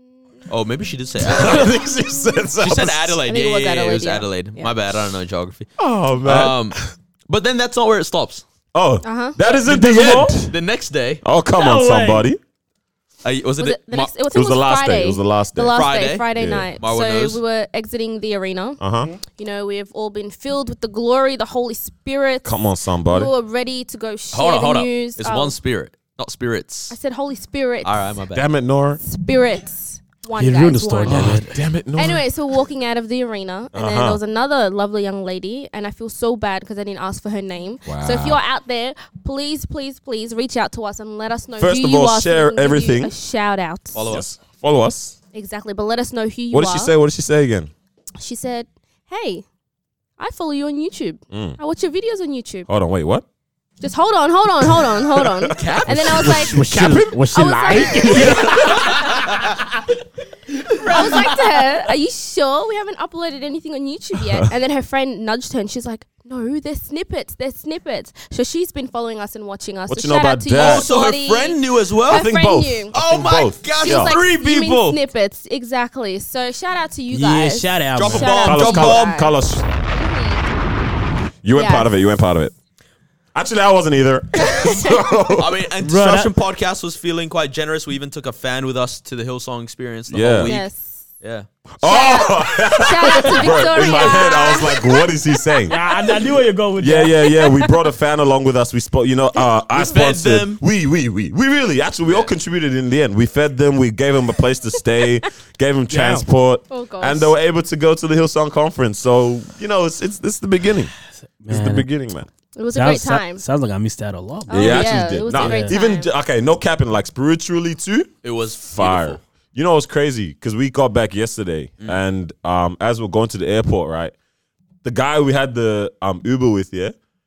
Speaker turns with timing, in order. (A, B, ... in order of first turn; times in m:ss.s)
0:00.5-0:01.8 A
0:01.2-0:03.2 B
0:02.6-0:05.7 A
0:03.3-0:04.7 C
0:05.8-0:06.9 B
0:06.2-0:08.4 A
0:08.7-0:10.6 B
0:09.0-0:09.4 C
0:09.6-0:10.4 D
0:10.5-0:11.2 A
0:11.2-0:12.4 B
0:11.5-0:12.3 D
0:13.2-0:14.1 A
0:13.6-0:25.6 C
0:14.3-0:15.8 B
0:15.7-0:16.3 A
0:16.3-0:16.7 B
0:16.8-0:17.4 A
0:18.8-0:19.1 B
0:22.4-0:23.3 B
0:24.3-0:27.0 A
0:26.9-0:28.2 C
0:27.8-0:28.5 A
0:28.3-0:29.0 B
0:29.0-0:31.4 C
0:30.4-0:31.6 D
0:31.1-0:32.2 B
0:31.9-0:44.0 C
0:33.7-0:34.2 B
0:37.9-0:38.4 B
0:41.6-0:43.1 B
0:43.9-0:44.3 A
0:44.1-0:45.2 B
0:45.3-0:46.9 C
0:46.5-0:47.7 B
0:48.2-0:49.4 C
0:50.2-0:52.7 C
0:51.3-0:51.6 B
0:52.7-0:53.2 B
0:53.8-0:56.8 C
0:55.1-0:59.1 B
0:55.6-0:56.3 A
0:56.0-0:59.0 D
0:57.3-0:59.2 C
0:58.8-0:59.1 A
1:00.8-1:12.9 C
1:09.9-1:10.9 B
1:10.6-1:12.3 A
1:12.1-1:14.2 B
1:12.9-1:15.0 A
1:13.8-1:19.3 C
1:17.1-1:18.4 D
1:18.0-1:19.2 A
1:18.4-1:19.7 B
1:19.9-1:20.5 C
1:21.4-1:22.5 B
1:21.5-1:21.9 C
1:23.3-1:25.7 B
1:24.4-1:25.2 C
1:25.3-1:30.7 A
1:25.8-1:26.3 D
1:30.1-1:30.6 B
1:30.5-1:31.0 C
1:31.2-1:31.5 A
1:31.8-1:35.8 B
1:31.8-1:35.7 C
1:35.7-1:37.2 D
1:36.8-1:50.9 B
1:37.2-1:37.8 C
1:39.7-1:40.6 A
1:42.0-1:42.3 A
1:45.9-1:46.3 D
1:46.7-1:47.3 C
1:51.4-1:51.9 D
1:51.5-1:52.3 B
1:52.6-1:53.4 C
1:52.7-1:55.8 D
1:54.5-1:56.1 C
1:54.5-2:04.1 B
1:58.2-1:59.2 A
2:04.8-2:06.9 B